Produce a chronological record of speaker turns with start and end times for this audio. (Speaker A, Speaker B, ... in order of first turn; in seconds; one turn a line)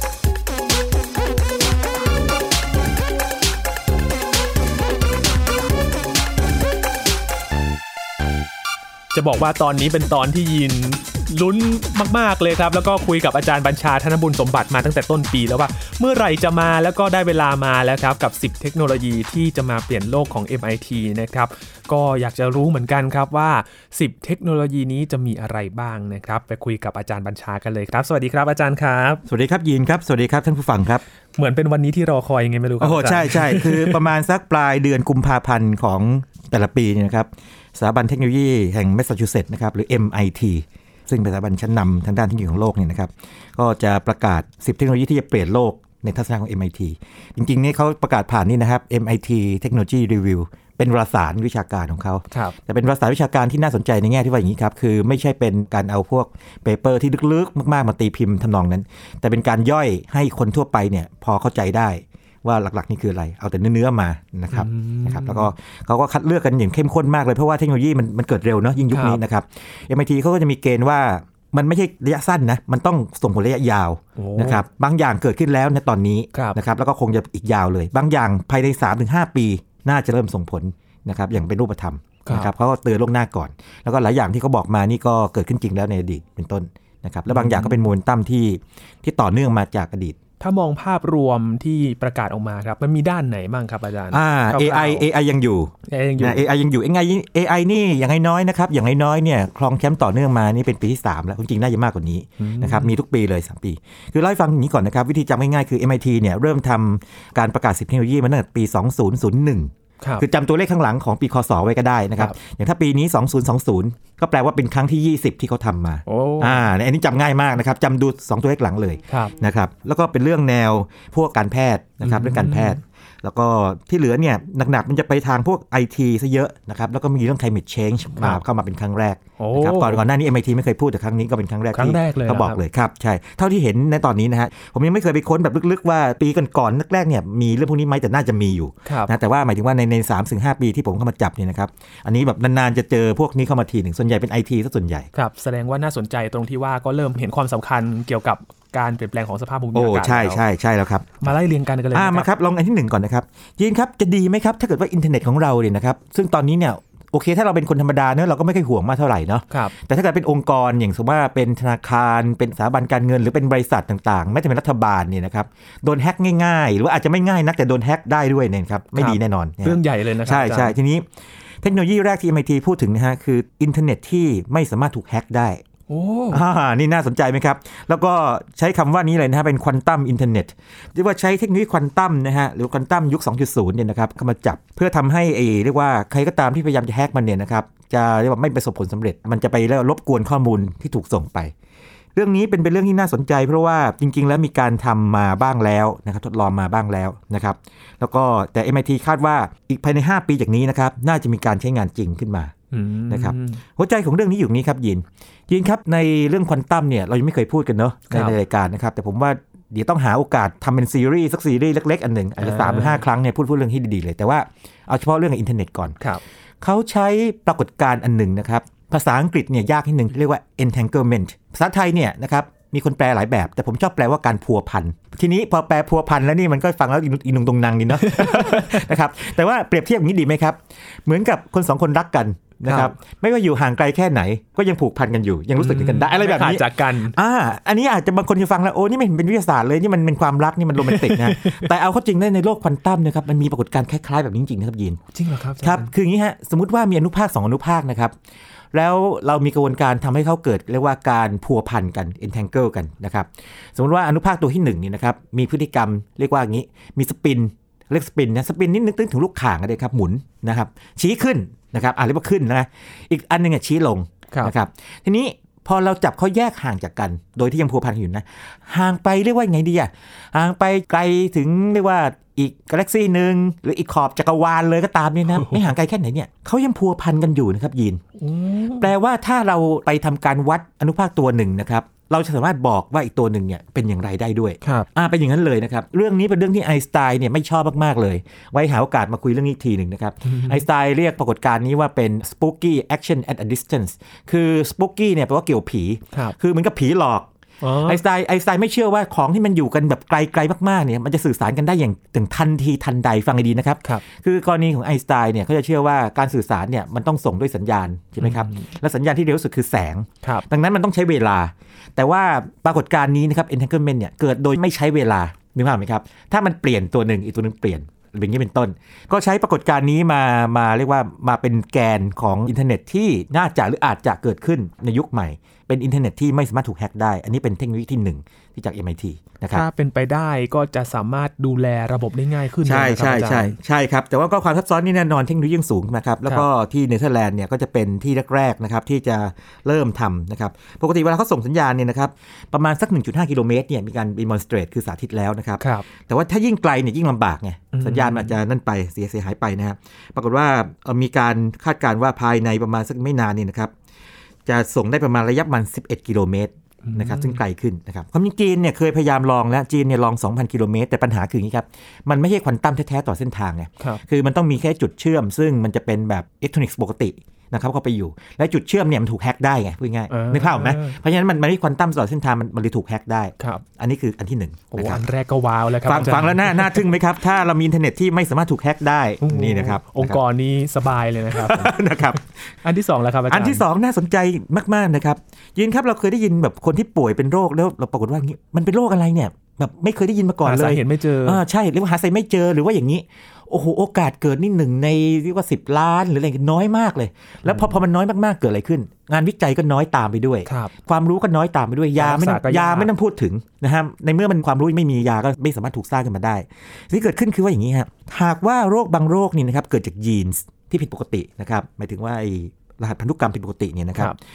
Speaker A: 9.1-29.2
Speaker B: 29.3-31.0
Speaker A: 31.4-34.1
Speaker B: 32.8-90.2
Speaker A: 52.3-52.6
Speaker A: 64.5-65.5
Speaker A: 68.9-69.2
Speaker A: 74.2-74.6
Speaker A: 76.3-76.6
Speaker A: 82.3-82.5
Speaker A: 87.3-87.8
Speaker A: 90.4-95.1
Speaker B: 94.1-145.1
Speaker A: 95.9-96.5
Speaker A: 102.4-102.9
Speaker A: 116.1-116.7
Speaker A: 119.1-119.3
Speaker A: 122.0-122.8
Speaker A: 129.4-130.0
Speaker A: 131.7-132.6
Speaker A: 138.8-139.1
Speaker A: 145.1-150.4
Speaker B: 149.7-151.2
Speaker A: 151.2-152.3
Speaker B: 151.9-171.1
Speaker A: 159.5-159.8
Speaker A: 168.9-170.8
Speaker B: 171.6-175.6
Speaker A: 175.9-176.4
Speaker B: 176.3-191.5
Speaker B: 192.2-202.5
Speaker A: 202.7-203.6
Speaker B: 203.1-216.0
Speaker A: 208.1-208.4
Speaker A: 212.4-213.0
Speaker B: 216.6-245.0
Speaker A: 228.0-228.9
Speaker A: 232.7-232.9
Speaker A: 235.6-237.2
Speaker A: 240.8-241.7
Speaker A: 245.1-245.9
Speaker B: 245.6-248.1
Speaker B: 248.7-278.0
Speaker A: 275.3-275.6
Speaker A: 278.2-278.9
Speaker B: 278.8-297.3
Speaker A: 284.6-284.9
Speaker A: 290.2-290.6
Speaker A: 297.6-298.0
Speaker B: 297.8-329.6
Speaker A: 308.2-308.7
Speaker A: 329.5-333.6
Speaker B: 332.6-353.7
Speaker A: 345.6-345.9
Speaker A: 347.7-348.4
Speaker B: 354.5-375.0
Speaker A: 356.9-357.4
Speaker A: 370.1-371.0
Speaker A: 373.4-373.6
Speaker A: 374.7-376.9
Speaker B: 375.8-380.2
Speaker A: 379.2-383.7
Speaker B: 381.3-382.2
Speaker B: 383.3-414.2
Speaker A: 390.4-391.4
Speaker A: 397.4-397.8
Speaker A: 400.5-400.7
Speaker A: 402.0-402.9